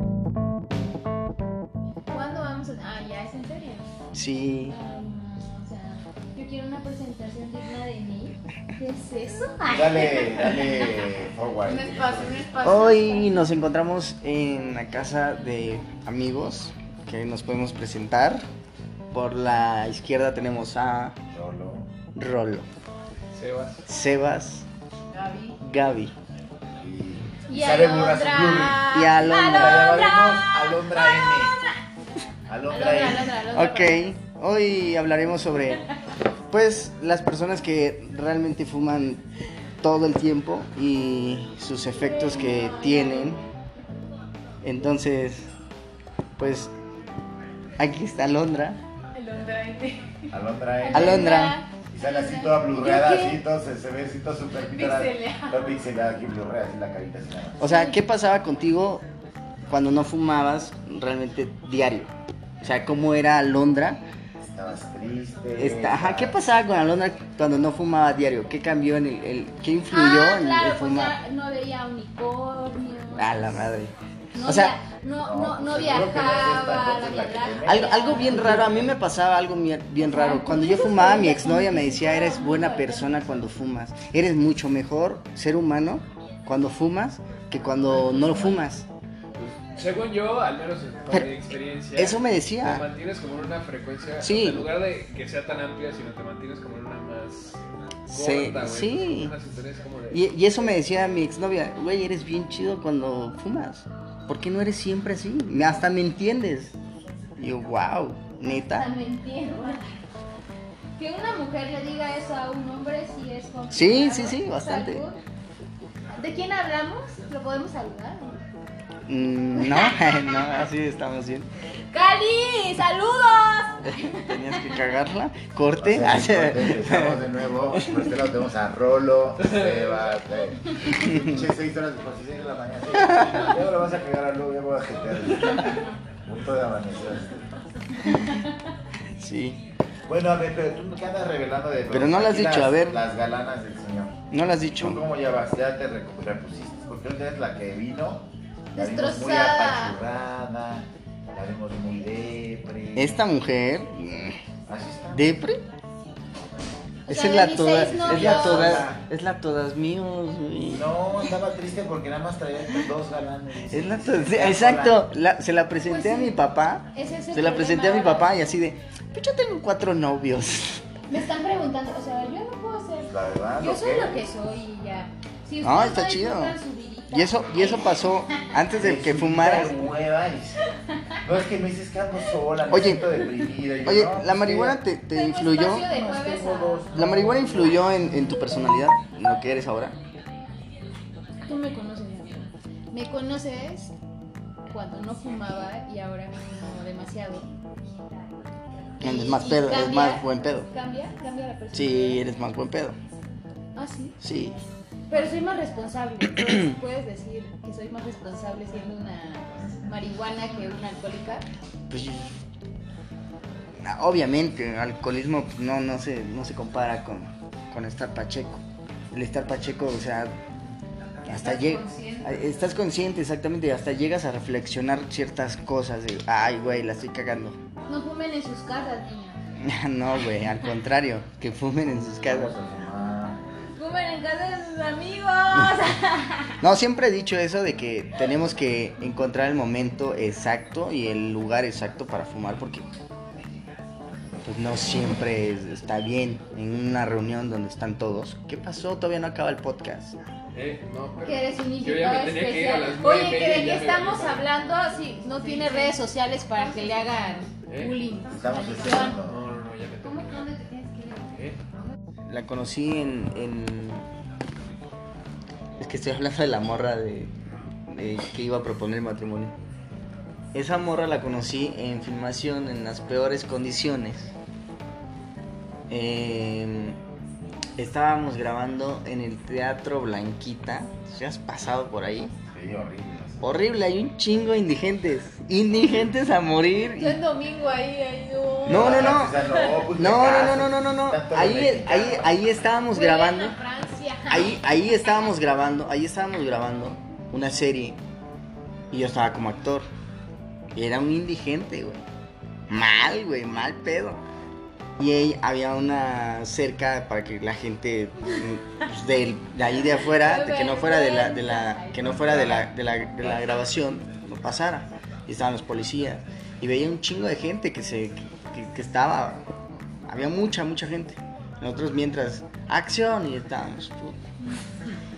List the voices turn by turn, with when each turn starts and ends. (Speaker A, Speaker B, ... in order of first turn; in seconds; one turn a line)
Speaker A: 2.1-3.9
Speaker B: 4.1-4.8
Speaker A: 4.7-11.0
Speaker C: 9.6-12.6
Speaker D: 11.6-13.3
Speaker B: 12.6-18.4
Speaker B: 19.1-21.2
Speaker C: 21.3-21.9
Speaker B: 22.1-22.6
Speaker E: 23.3-23.8
Speaker B: 23.9-24.7
Speaker D: 25.1-25.6
Speaker B: 25.6-26.1
Speaker C: 26.8-31.6
Speaker A: 27.5-31.7
Speaker B: 28.9-30.0
Speaker C: 32.5-33.3
Speaker A: 32.7-34.1
Speaker B: 33.5-35.9
Speaker B: 36.5-39.2
Speaker B: 39.8-43.4
Speaker A: 41.9-43.5
Speaker B: 44.6-45.5
Speaker B: 46.4-46.7
Speaker B: 47.8-48.8
Speaker D: 49.1-50.2
Speaker A: 49.2-49.6
Speaker C: 50.3-51.4
Speaker A: 50.8-53.3
Speaker B: 50.9-51.6
Speaker C: 51.9-57.6
Speaker D: 52.0-53.4
Speaker D: 54.6-55.5
Speaker B: 57.6-59.0
Speaker A: 57.6-58.0
Speaker B: 59.7-64.0
Speaker C: 64.4-66.3
Speaker B: 65.5-71.2
Speaker A: 69.9-73.4
Speaker B: 73.1-73.9
Speaker A: 74.3-78.6
Speaker B: 74.4-74.8
Speaker C: 75.2-79.0
Speaker D: 75.8-76.9
Speaker B: 77.6-88.8
Speaker A: 80.0-83.4
Speaker C: 87.9-88.6
Speaker E: 89.3-100.2
Speaker B: 91.9-92.8
Speaker B: 94.2-94.7
Speaker B: 98.1-99.3
Speaker B: 100.1-106.7
Speaker B: 107.4-108.9
Speaker A: 108.7-109.8
Speaker A: 111.0-115.2
Speaker B: 113.7-115.0
Speaker A: 116.1-118.4
Speaker B: 119.0-121.5
Speaker A: 119.6-120.4
Speaker A: 121.9-124.8
Speaker B: 123.8-127.2
Speaker C: 125.8-137.5
Speaker B: 127.8-128.0
Speaker E: 129.4-129.9
Speaker B: 131.0-131.4
Speaker B: 132.9-133.5
Speaker B: 139.2-139.6
Speaker C: 140.1-144.2
Speaker B: 141.9-143.0
Speaker B: 144.3-145.0
Speaker C: 144.8-153.2
Speaker A: 148.7-150.0
Speaker B: 152.9-154.4
Speaker C: 154.7-155.3
Speaker B: 155.1-155.6
Speaker A: 157.1-158.8
Speaker B: 157.1-160.9
Speaker C: 157.6-159.0
Speaker C: 160.7-165.1
Speaker B: 163.7-170.8
Speaker A: 165.9-166.3
Speaker A: 166.9-168.3
Speaker A: 171.1-178.2
Speaker C: 173.1-174.2
Speaker B: 175.6-176.6
Speaker B: 177.1-179.9
Speaker C: 178.8-180.6
Speaker C: 181.2-184.8
Speaker B: 182.7-183.1
Speaker B: 183.8-185.9
Speaker A: 185.1-186.9
Speaker C: 185.7-187.9
Speaker B: 186.9-189.9
Speaker A: 191.4-193.9
Speaker A: 194.7-197.5
Speaker A: 199.0-202.2
Speaker B: 199.0-200.7
Speaker B: 201.7-203.0
Speaker A: 203.7-204.2
Speaker B: 204.2-204.6
Speaker A: 205.1-211.4
Speaker C: 209.5-209.9
Speaker B: 211.9-212.4
Speaker B: 213.8-220.3
Speaker B: 221.2-227.6
Speaker D: 221.4-222.3
Speaker A: 227.9-229.4
Speaker B: 229.6-232.6
Speaker C: 232.2-233.4
Speaker A: 233.8-236.6
Speaker B: 236.6-242.8
Speaker B: 244.4-250.2
Speaker E: 250.5-254.5
Speaker D: 251.2-252.7
Speaker A: 251.4-259.2
Speaker D: 255.2-255.9
Speaker D: 256.6-257.6
Speaker E: 257.6-258.0
Speaker C: 258.3-259.4
Speaker E: 259.1-260.5
Speaker D: 260.0-261.2
Speaker E: 261.1-261.6
Speaker B: 262.3-264.1
Speaker B: 265.8-267.3
Speaker B: 267.9-269.5
Speaker B: 270.5-274.3
Speaker B: 275.9-277.0
Speaker B: 277.8-282.3
Speaker C: 282.5-283.5
Speaker B: 283.4-287.2
Speaker A: 287.0-289.7
Speaker C: 288.6-292.4
Speaker B: 288.7-293.6
Speaker A: 292.9-295.3
Speaker B: 294.3-298.0
Speaker B: 298.9-299.9
Speaker B: 300.7-302.1
Speaker B: 302.7-304.2
Speaker B: 305.0-319.5
Speaker A: 310.0-312.0
Speaker C: 312.0-312.7
Speaker C: 313.2-313.5
Speaker B: 320.1-324.2